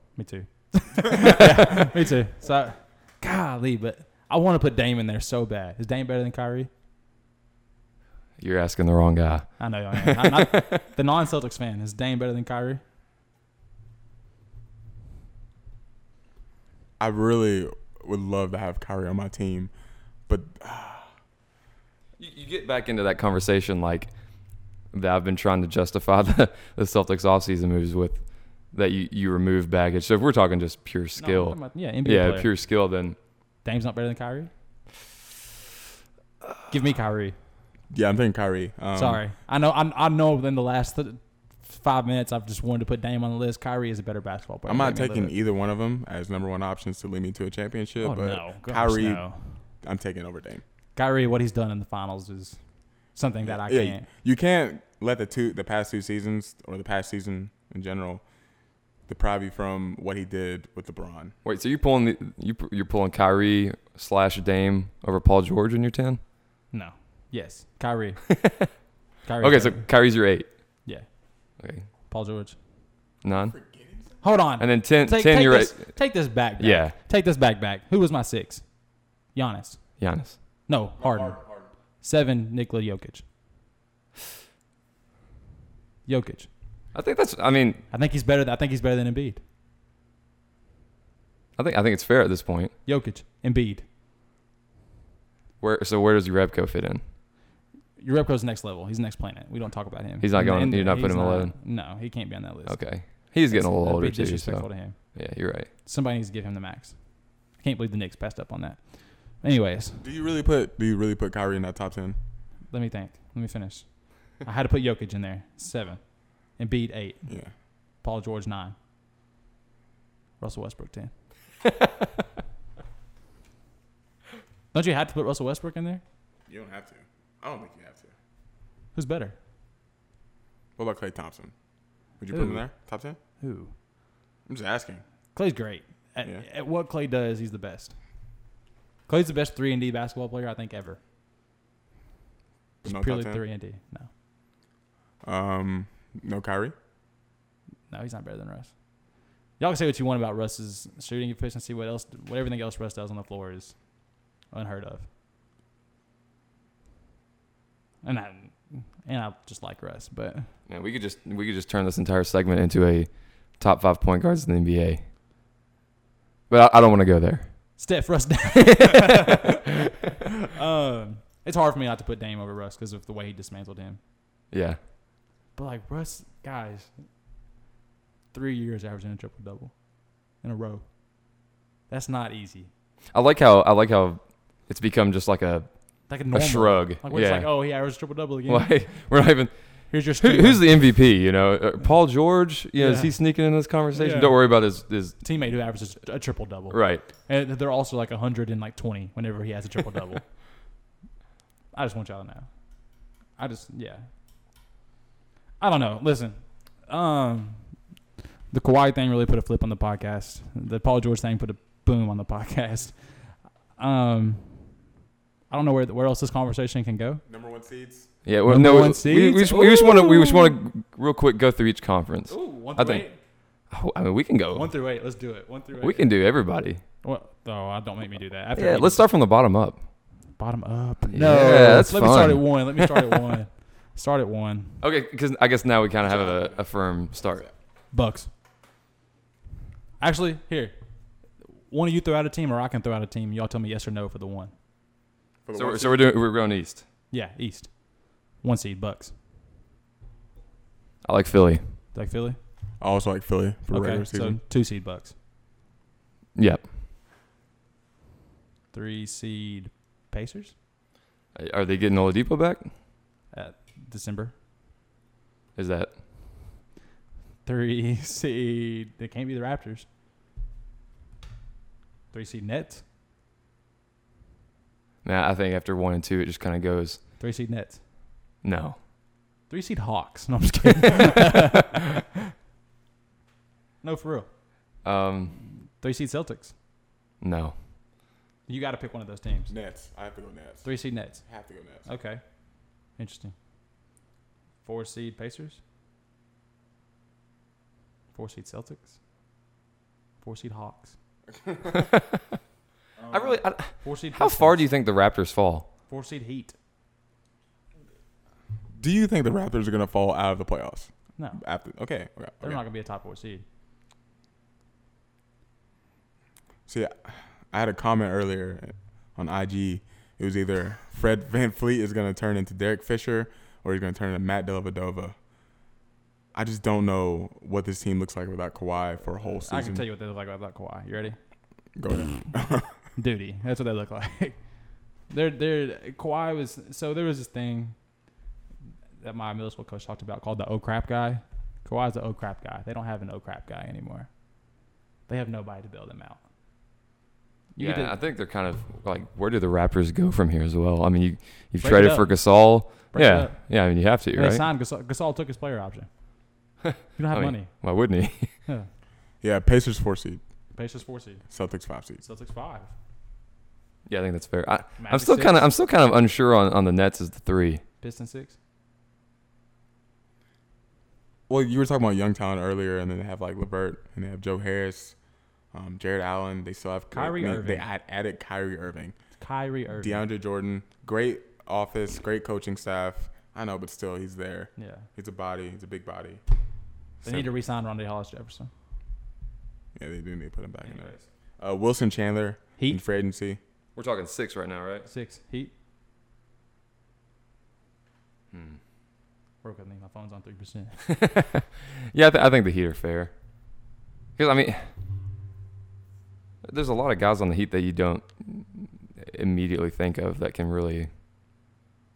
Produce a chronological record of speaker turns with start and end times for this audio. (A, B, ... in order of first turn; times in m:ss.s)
0:00.2-0:06.7 A
0:08.4-0:10.8 B
0:09.6-0:12.8 A
0:17.0-0:19.7 C
0:20.3-0:21.1 C
0:22.2-0:24.2 B
0:24.9-0:33.2 B
0:31.2-0:32.5 A
0:33.6-0:34.5 A
0:36.7-0:37.4 A
0:37.9-0:39.2 C
0:38.9-0:45.3 A
0:44.6-0:49.2 C
0:48.0-0:49.5 A
0:49.8-0:50.6 C
0:50.9-0:52.6 A
0:53.1-0:54.0 A
0:53.4-0:58.2 C
0:59.1-1:01.3 C
1:01.4-1:06.2 B
1:06.7-1:08.2 A
1:08.3-1:08.7 B
1:09.2-1:09.9 A
1:09.4-1:10.5 B
1:11.6-1:11.9 B
1:12.1-1:12.6 A
1:13.2-1:13.5 B
1:13.3-1:14.2 C
1:14.2-1:19.9 A
1:14.6-1:16.0 B
1:16.6-1:16.9 B
1:20.0-1:20.4 B
1:20.7-1:21.4 A
1:21.0-1:21.7 C
1:22.0-1:23.2 A
1:26.0-1:26.5 A
1:26.9-1:27.8 B
1:27.9-1:29.4 A
1:31.6-1:32.7 B
1:32.8-1:33.8 A
1:35.6-1:37.0 B
1:38.0-1:45.1 A
1:40.2-1:41.5 B
1:42.7-1:45.7 B
1:45.8-1:50.0 A
1:50.0-1:52.2 C
1:52.7-1:57.2 A
1:57.3-1:57.5 C
1:58.0-1:58.7 A
2:00.4-2:01.1 A
2:04.7-2:06.0 A
2:06.5-2:08.1 C
2:08.9-2:09.3 A
2:10.8-2:11.5 C
2:12.2-2:13.2 C
2:12.3-2:12.6 A
2:13.4-2:13.7 A
2:14.4-2:15.0 C
2:15.3-2:17.9 A
2:19.1-2:21.0 A
2:22.8-2:24.1 A
2:22.8-2:23.4 C
2:25.2-2:26.7 C
2:27.9-2:28.8 A
2:29.6-2:33.8 A
2:34.5-2:35.1 A
2:38.0-2:40.5 A
2:40.7-2:45.0 B
2:46.5-2:47.8 B
2:47.8-2:49.8 A
2:48.6-2:49.6 B
2:50.4-2:54.0 A
2:54.5-2:54.8 B
2:55.6-2:56.9 A
2:58.3-2:59.7 A
3:00.4-3:00.8 A
3:01.9-3:02.7 A
3:03.1-3:05.7 B
3:06.1-3:08.7 A
3:06.2-3:07.5 B
3:08.5-3:15.2 B
3:09.9-3:10.7 A
3:12.8-3:13.1 A
3:13.9-3:14.4 A
3:15.2-3:20.2 A
3:16.7-3:17.0 B
3:21.7-3:22.5 A
3:23.4-3:24.1 A
3:25.6-3:27.7 A
3:28.5-3:33.0 A
3:33.8-3:34.7 A
3:35.5-3:37.2 A
3:37.2-3:38.1 C
3:38.2-3:43.0 B
3:38.5-3:40.6 A
3:42.3-3:43.2 A
3:43.7-3:44.7 B
3:44.5-3:46.1 A
3:45.8-3:46.8 B
3:47.0-3:49.0 A
3:48.5-3:49.8 B
3:50.4-3:54.8 A
3:51.1-3:53.2 B
3:54.8-3:57.4 B
3:56.0-3:57.5 C
3:57.9-3:58.3 A
4:00.0-4:00.8 A
4:01.7-4:04.5 A
4:05.4-4:06.1 C
4:05.5-4:06.8 B
4:07.1-4:09.1 A
4:11.0-4:11.6 B
4:11.9-4:12.4 A
4:12.8-4:14.4 C
4:13.7-4:15.1 A
4:16.4-4:16.6 B
4:18.7-4:20.5 A
4:21.3-4:22.7 B
4:23.3-4:24.3 A
4:25.6-4:25.9 B
4:27.4-4:29.8 A
4:32.1-4:32.8 A
4:35.0-4:37.0 B
4:37.2-4:37.8 A
4:38.4-4:38.8 B
4:39.5-4:41.8 A
4:43.8-4:44.3 A
4:44.8-4:45.4 B
4:45.7-4:46.5 A
4:47.2-4:47.5 B
4:48.5-4:49.5 A
4:49.5-4:51.8 C
4:50.6-4:51.2 A
4:51.8-4:52.2 A
4:53.0-4:53.3 A
4:54.6-4:55.6 A
4:58.1-4:58.9 A
5:00.2-5:00.9 A
5:01.3-5:01.9 C
5:01.7-5:02.2 B
5:03.0-5:03.4 C
5:03.1-5:05.7 B
5:03.8-5:04.6 A
5:05.9-5:06.5 A
5:08.7-5:12.6 C
5:12.4-5:13.4 A
5:16.7-5:25.2 C
5:26.3-5:29.8 C
5:29.4-5:31.2 A
5:31.8-5:32.7 C
5:33.0-5:34.4 A
5:35.1-5:37.7 A
5:39.0-5:44.1 A
5:45.1-5:46.2 A
5:47.5-5:48.0 A
5:47.6-5:54.4 B
5:51.6-5:52.1 A
5:52.9-5:53.5 A
5:54.1-5:55.9 A
5:56.6-5:58.4 B
5:57.0-5:57.5 A
5:59.2-6:00.2 C
6:00.5-6:01.2 A
6:01.3-6:02.0 C
6:02.0-6:02.7 A
6:03.9-6:07.6 B
6:04.8-6:05.5 A
6:07.8-6:08.4 A
6:11.3-6:15.0 C
6:15.5-6:19.0 C
6:16.9-6:17.6 A
6:19.2-6:20.0 A
6:19.7-6:26.2 C
6:24.6-6:24.9 A
6:27.0-6:28.5 A
6:29.7-6:33.4 C
6:30.6-6:31.0 A
6:33.8-6:34.9 B
6:34.8-6:35.5 A
6:38.3-6:38.6 B
6:39.4-6:40.8 A
6:40.9-6:43.1 B
6:44.2-6:44.7 B
6:46.4-6:50.9 B